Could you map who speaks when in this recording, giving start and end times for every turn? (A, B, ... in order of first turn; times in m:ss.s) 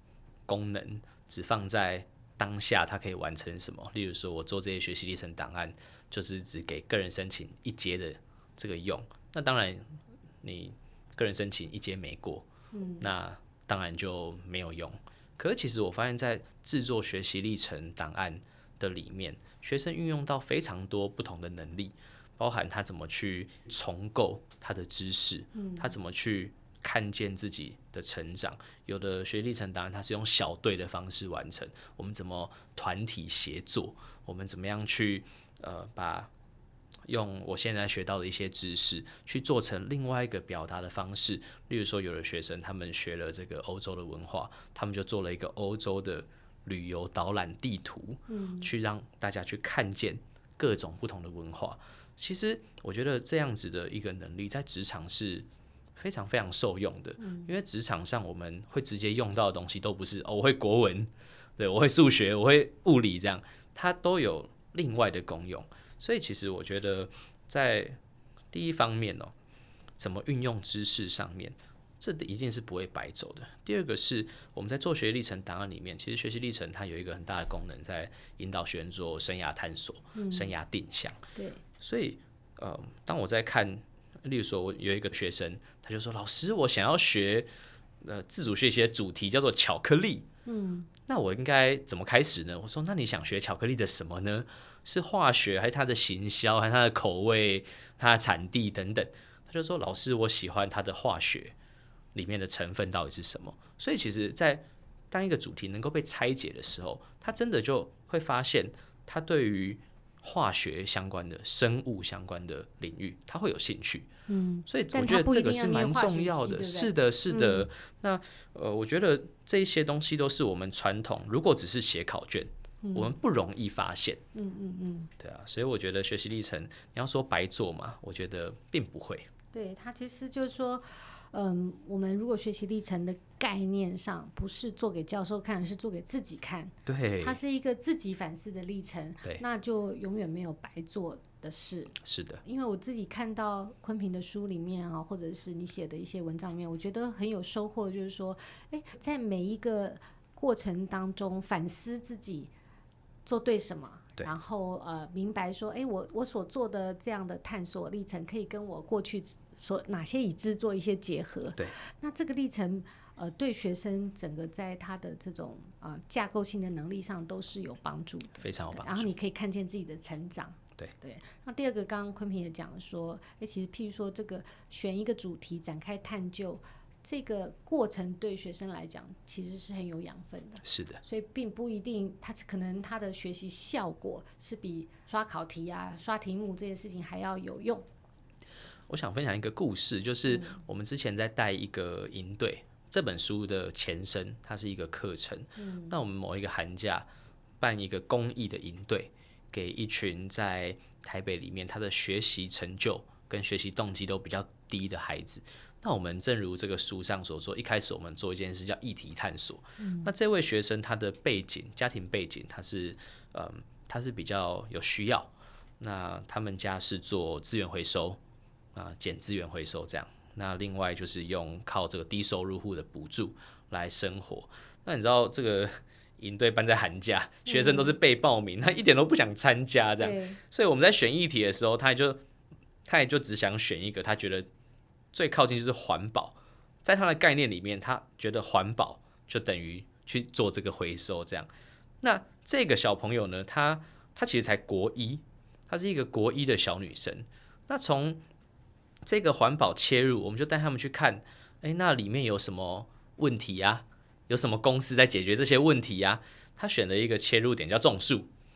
0:00.5-0:12.5 A
0:12.7-0:13.1 B
0:13.0-0:36.3 A
0:25.6-0:25.9 B
0:37.1-1:08.0 A
0:48.3-0:48.7 B
0:57.2-0:57.5 B
1:08.5-1:09.3 A
1:10.0-1:21.2 A
1:20.2-1:20.5 B
1:21.4-1:21.6 B
1:21.8-1:27.5 A
1:28.0-1:30.3 A
1:30.5-1:30.9 B
1:31.1-1:41.5 A
1:42.2-1:54.1 A
1:54.3-1:57.7 B
1:54.7-2:04.2 A
2:02.8-2:03.1 B
2:04.4-2:05.1 B
2:05.2-2:09.3 A
2:09.5-2:32.5 B
2:16.9-2:17.4 A
2:22.0-2:22.4 A
2:33.3-3:07.8 B
2:48.4-2:49.1 A
3:00.6-3:01.0 A
3:08.9-3:17.1 A
3:10.3-3:10.6 B
3:15.6-3:15.9 B
3:17.6-3:38.2 A
3:29.8-3:30.1 B
3:38.7-3:52.2 A
3:47.5-3:47.9 B
3:50.0-3:50.4 B
3:52.8-3:54.5 A
3:55.1-4:01.5 A
4:02.0-4:08.2 A
4:09.0-4:18.3 A